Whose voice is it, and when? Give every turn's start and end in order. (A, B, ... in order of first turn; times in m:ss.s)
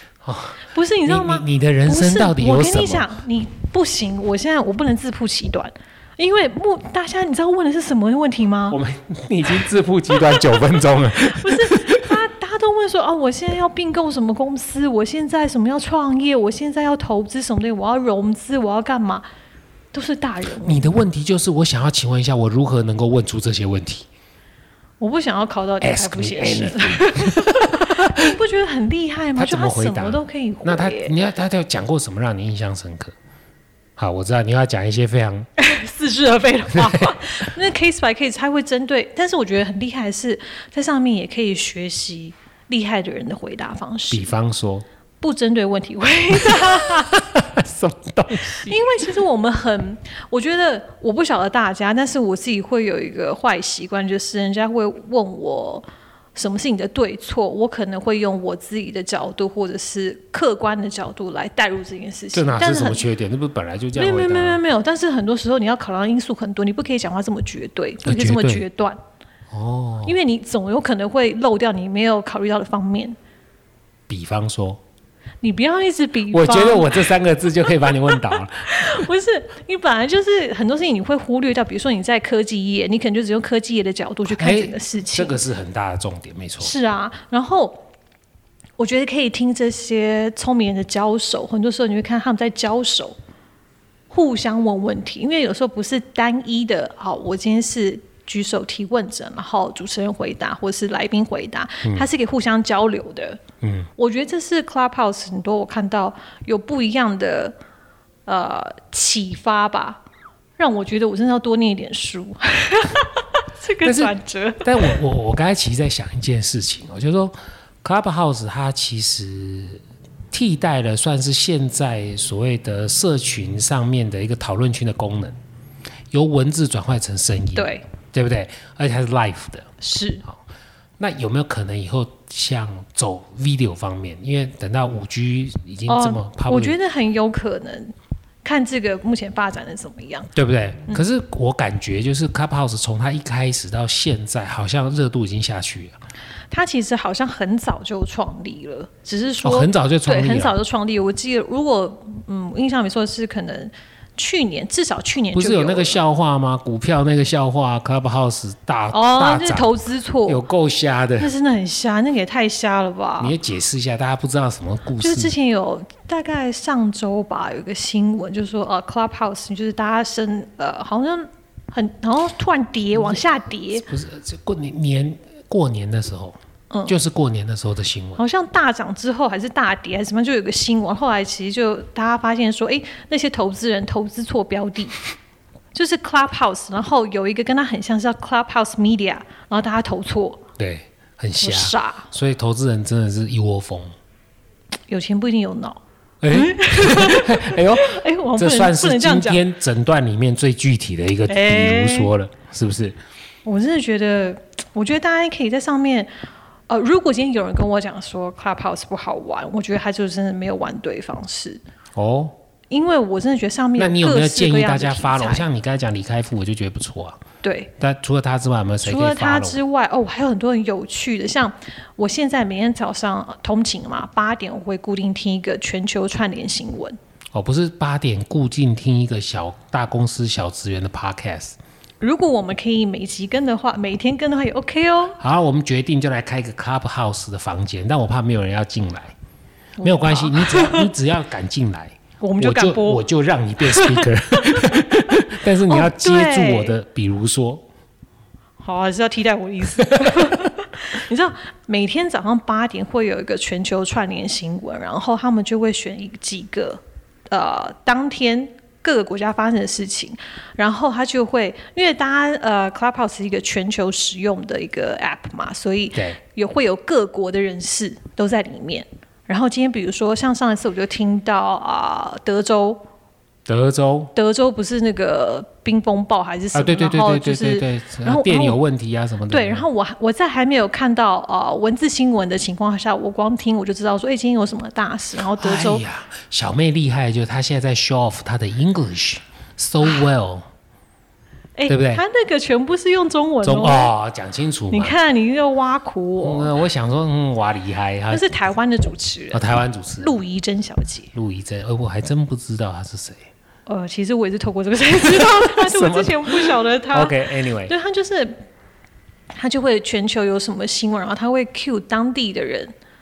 0:00.2-0:03.1 A
0:00.6-0:08.8 B
0:08.7-0:12.0 A
0:11.1-0:19.2 B
0:19.9-0:20.8 B
0:20.6-0:24.0 A
0:25.0-0:31.1 B
0:25.8-0:28.3 A
0:29.4-0:33.1 A
0:34.0-0:35.5 A
0:35.6-0:44.3 B
0:36.8-0:37.1 A
0:44.1-0:44.8 A
0:45.2-0:47.2 B
0:46.4-0:48.8 A
0:48.6-1:03.0 B
1:02.3-1:04.6 A
1:03.9-1:09.0 B
1:08.0-1:08.6 A
1:09.5-1:10.2 A
1:10.0-1:13.2 B
1:14.1-1:14.8 A
1:15.4-1:17.0 B
1:16.3-1:19.0 A
1:18.0-1:25.4 B
1:24.3-1:26.7 A
1:26.6-1:27.9 B
1:28.8-1:33.1 B
1:34.1-1:43.4 B
1:43.6-1:43.9 A
1:44.0-1:47.5 B
1:48.2-1:50.0 B
1:50.6-1:55.0 B
1:53.8-2:05.4 A
2:06.1-2:09.7 A
2:07.5-2:07.8 B
2:09.8-2:10.2 B
2:11.0-2:16.8 A
2:15.9-2:20.3 B
2:20.3-2:26.0 A
2:26.5-2:36.0 B
2:29.4-2:30.6 A
2:35.3-2:39.7 A
2:38.9-2:40.4 B
2:40.2-2:41.3 A
2:41.2-2:43.3 B
2:43.2-2:45.3 A
2:45.0-2:53.8 B
2:52.9-2:53.2 A
2:53.7-2:58.2 A
2:58.2-3:05.0 B
3:05.7-3:10.4 B
3:10.6-3:13.9 A
3:11.4-3:12.1 B
3:14.9-3:19.4 B
3:16.2-3:23.0 A
3:21.3-3:22.1 B
3:23.4-3:26.1 B
3:26.7-3:31.6 B
3:31.9-3:32.4 A
3:32.7-3:35.4 B
3:33.8-3:37.2 A
3:37.4-3:37.7 B
3:37.8-3:39.6 A
3:38.8-3:47.0 B
3:47.3-3:51.6 A
3:52.0-3:55.2 B
3:55.2-3:59.1 A
3:59.8-4:00.9 B
3:59.8-4:07.6 A
4:02.2-4:03.0 B
4:03.6-4:06.7 B
4:08.6-4:32.8 B
4:10.0-4:10.4 A
4:33.5-4:34.1 A
4:34.1-4:38.6 B
4:36.5-4:39.6 A
4:39.3-4:45.8 B
4:45.3-4:50.4 A
4:51.6-4:53.9 B
4:51.7-4:52.0 A
4:53.4-4:55.0 A
4:54.7-4:56.5 B
4:56.2-4:58.2 A
4:58.1-5:01.1 B
4:59.3-5:00.1 A
5:01.1-5:03.3 A
5:03.7-5:08.4 B
5:05.0-5:07.7 A
5:09.3-5:12.7 B